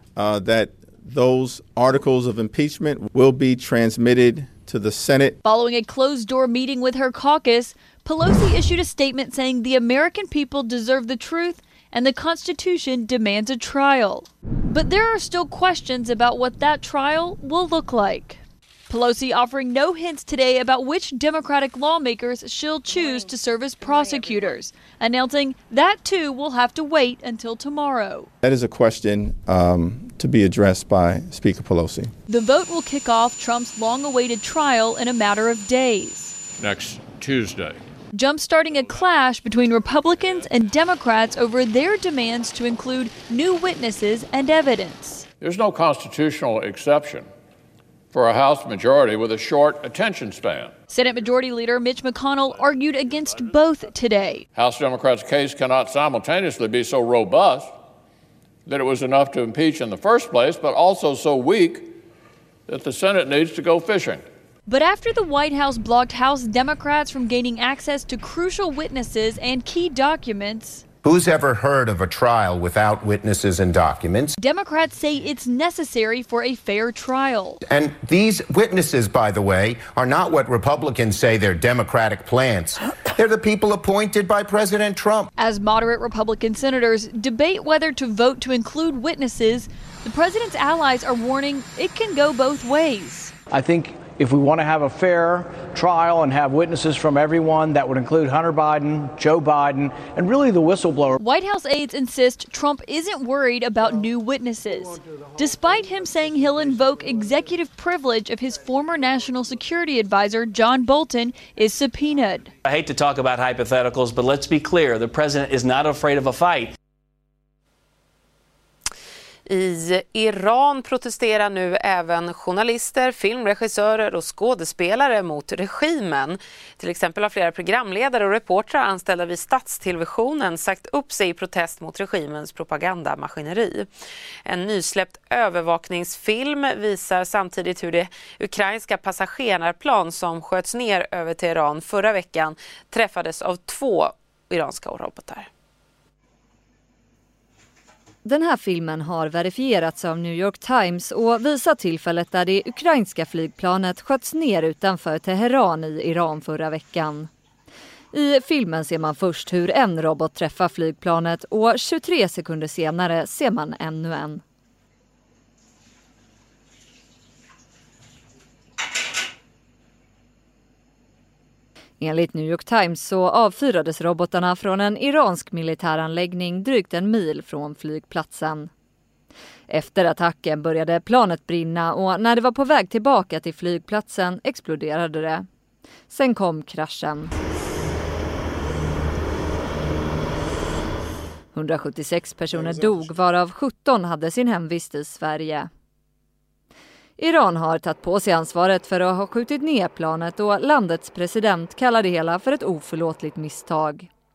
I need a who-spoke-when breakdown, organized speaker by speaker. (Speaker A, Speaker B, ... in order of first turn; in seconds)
Speaker A: 0.2-5.4, 28.4-32.1
Speaker B: 5.5-28.3, 32.3-36.4, 38.1-45.3, 50.9-54.5, 64.7-70.8, 74.4-77.6, 85.4-93.3, 101.2-112.5
Speaker C: 36.6-37.8, 45.4-47.3, 48.1-50.7, 54.5-57.7, 58.7-62.0, 62.7-64.2
Speaker D: 71.0-74.3, 77.7-85.3
Speaker E: 93.5-101.2
Speaker F: 112.7-116.7
Speaker G: 119.5-133.9, 134.5-145.5
Speaker H: 148.2-157.3, 158.1-164.4, 172.0-178.7, 179.7-185.5, 186.1-187.3, 191.5-195.7, 197.2-204.1